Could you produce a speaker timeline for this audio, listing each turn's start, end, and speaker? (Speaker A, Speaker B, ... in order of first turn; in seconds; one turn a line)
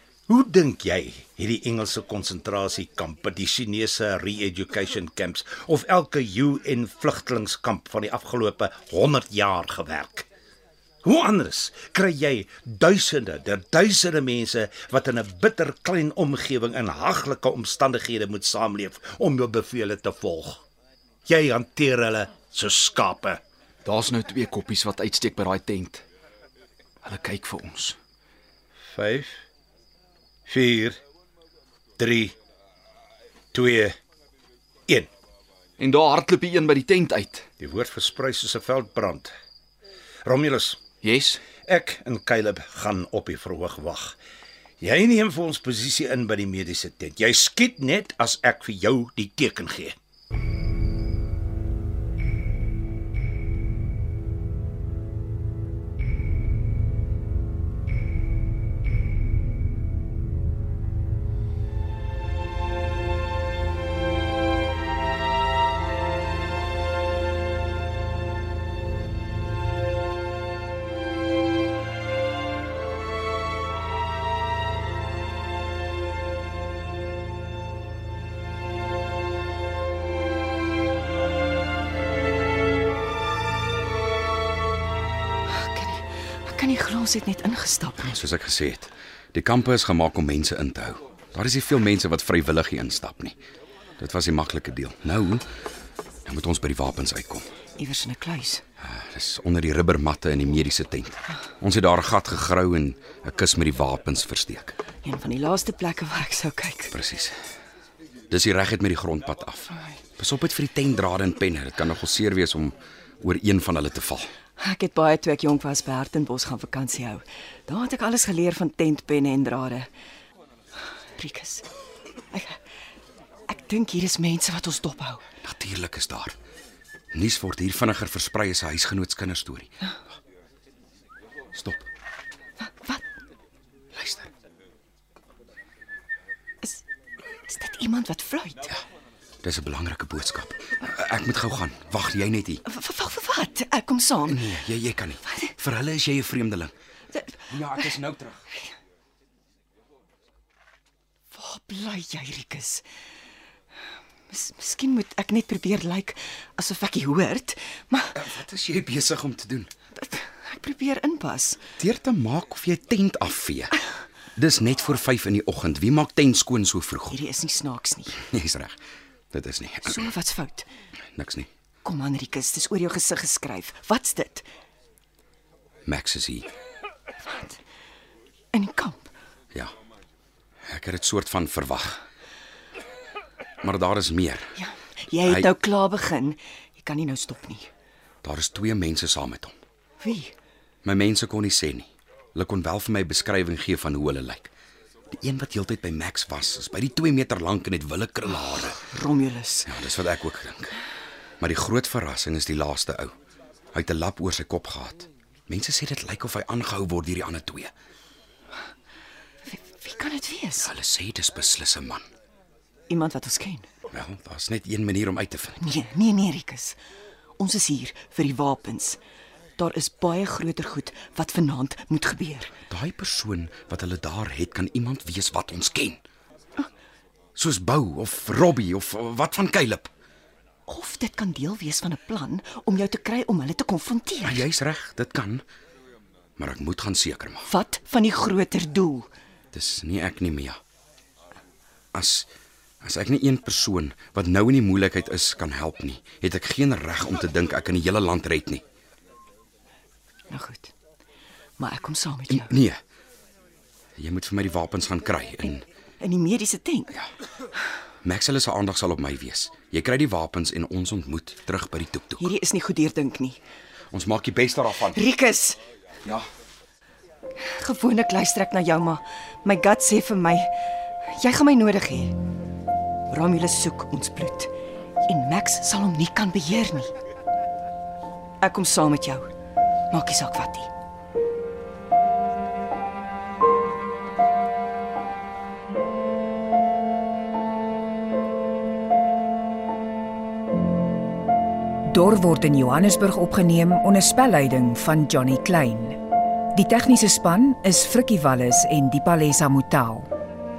Speaker A: 0.3-10.3
Speaker A: 11.0-20.6
Speaker A: 21.3-23.4
Speaker B: 23.8-26.0
Speaker B: 27.0-28.0
Speaker A: 28.9-29.4
Speaker A: 30.5-31.0
Speaker A: 32.0-32.3
Speaker A: 33.5-34.0
Speaker B: 35.8-37.5
Speaker A: 37.6-39.3
Speaker A: 40.2-40.8
Speaker B: 41.0-41.4
Speaker A: 41.5-44.2
Speaker A: 44.8-49.9
Speaker C: 85.5-88.2
Speaker D: 88.0-93.4
Speaker D: 94.0-95.4
Speaker D: 96.2-97.5
Speaker C: 97.8-98.6
Speaker D: 98.8-104.7
Speaker C: 105.0-106.9
Speaker D: 106.9-107.3
Speaker D: 108.3-114.3
Speaker C: 114.6-119.9
Speaker C: 121.2-121.6
Speaker C: 122.3-122.6
Speaker C: 123.5-125.2
Speaker D: 125.4-126.3
Speaker D: 127.1-129.7
Speaker D: 131.5-131.9
Speaker D: 133.9-134.3
Speaker C: 137.5-138.7
Speaker D: 139.4-142.6
Speaker C: 142.7-144.6
Speaker D: 144.2-146.7
Speaker C: 145.2-145.5
Speaker C: 147.1-147.9
Speaker D: 147.5-148.4
Speaker C: 151.3-152.8
Speaker C: 154.3-158.2
Speaker D: 158.1-159.7
Speaker C: 160.0-161.6
Speaker D: 161.8-163.7
Speaker D: 164.3-167.2
Speaker C: 167.1-168.2
Speaker D: 168.2-168.8
Speaker D: 169.3-170.1
Speaker C: 169.8-170.7
Speaker D: 171.1-171.5
Speaker C: 171.8-174.4
Speaker D: 175.8-176.5
Speaker C: 177.3-177.5
Speaker C: 178.5-179.1
Speaker D: 180.7-182.0
Speaker D: 183.6-184.6
Speaker C: 184.6-187.7
Speaker D: 188.2-189.5
Speaker C: 190.0-190.3
Speaker D: 190.8-194.5
Speaker D: 195.1-198.9
Speaker C: 198.9-199.8
Speaker D: 199.7-200.8
Speaker D: 201.4-203.1
Speaker D: 203.7-207.7
Speaker C: 209.5-210.7
Speaker D: 210.6-212.0
Speaker C: 212.9-213.7
Speaker D: 213.9-215.7
Speaker C: 215.6-216.8
Speaker C: 217.4-219.0
Speaker C: 219.6-222.5
Speaker D: 222.7-226.0
Speaker D: 227.3-229.9
Speaker C: 230.7-234.5
Speaker D: 234.2-235.4
Speaker D: 236.4-237.5
Speaker C: 237.5-239.1
Speaker D: 239.5-240.6
Speaker D: 241.9-242.3
Speaker D: 242.8-248.6
Speaker C: 250.3-250.7
Speaker C: 251.6-252.5
Speaker D: 252.3-252.8
Speaker D: 254.0-255.6
Speaker C: 256.0-256.9
Speaker D: 258.0-262.3
Speaker C: 262.2-263.4
Speaker D: 263.9-265.0
Speaker C: 264.9-265.6
Speaker C: 267.4-270.5
Speaker C: 271.0-272.2
Speaker C: 273.1-274.5
Speaker C: 275.1-276.9
Speaker C: 278.4-279.3
Speaker C: 279.9-280.7
Speaker E: 291.9-296.0
Speaker E: 296.5-300.1